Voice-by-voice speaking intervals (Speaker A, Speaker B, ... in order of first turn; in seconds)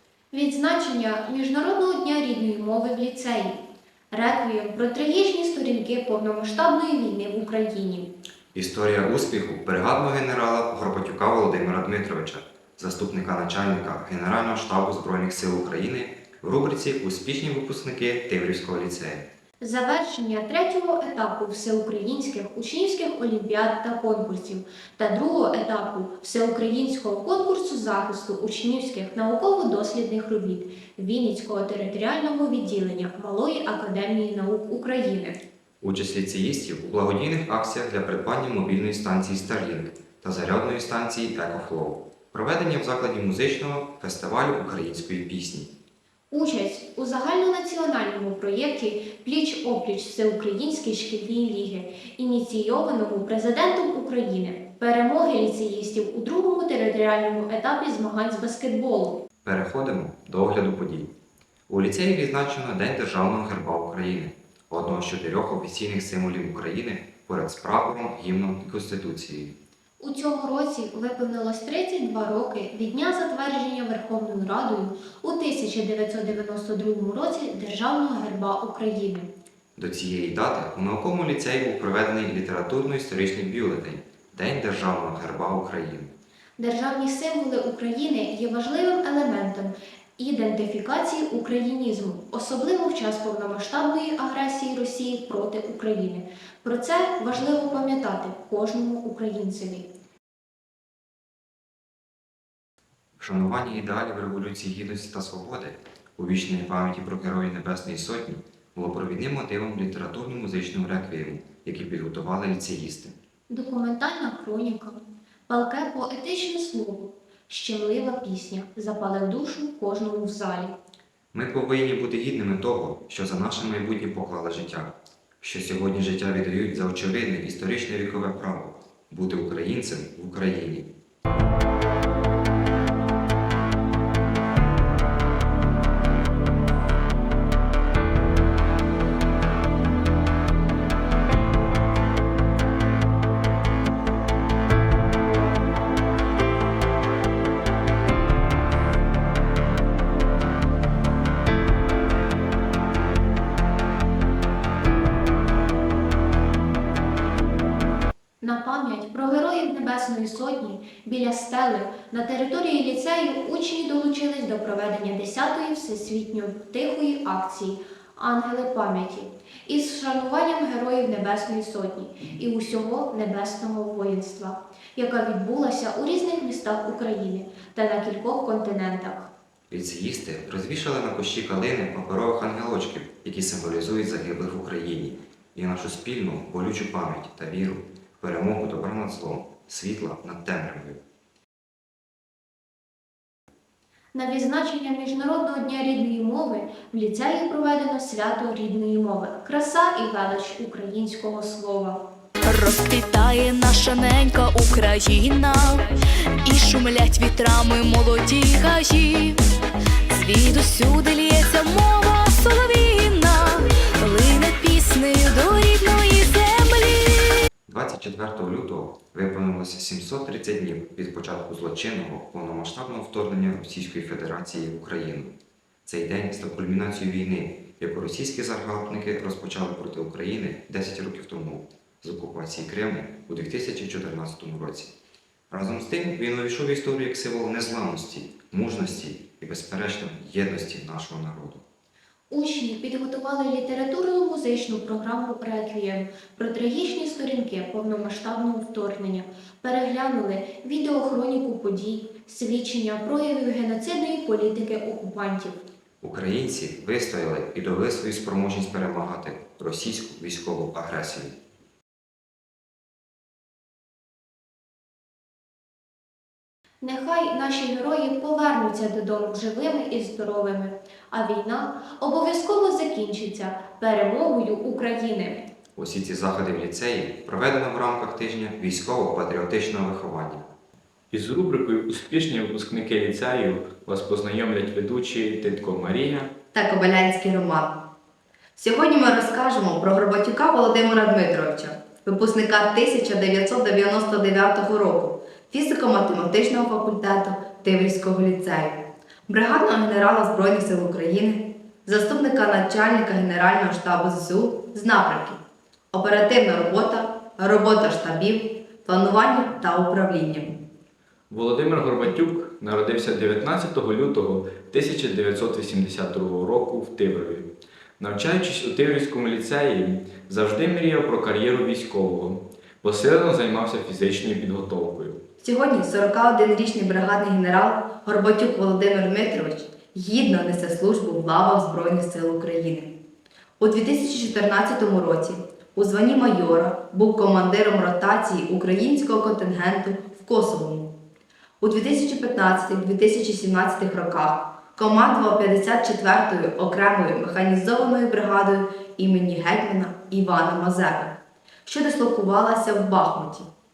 Speaker A: 0.3-3.6, 4.1-8.1, 19.6-35.4, 46.3-59.2, 70.0-79.3, 86.6-99.9, 113.5-120.7, 158.4-179.3, 194.1-202.1, 242.3-255.6, 266.8-275.5
Speaker B: 8.6-19.3, 35.8-45.7, 59.4-61.1, 61.7-69.5, 79.8-86.1, 103.2-113.2, 121.3-130.9, 179.7-191.0, 217.7-225.3, 225.9-234.9, 235.5-241.6, 256.0-261.4, 275.8-280.5
Speaker C: 202.5-205.9, 206.4-209.4, 210.1-217.3
Speaker D: 281.1-286.3, 311.3-317.5, 318.0-325.2
Speaker E: 286.5-287.8, 288.6-305.4, 305.9-310.6, 325.4-332.9, 333.6-340.9, 341.6-353.5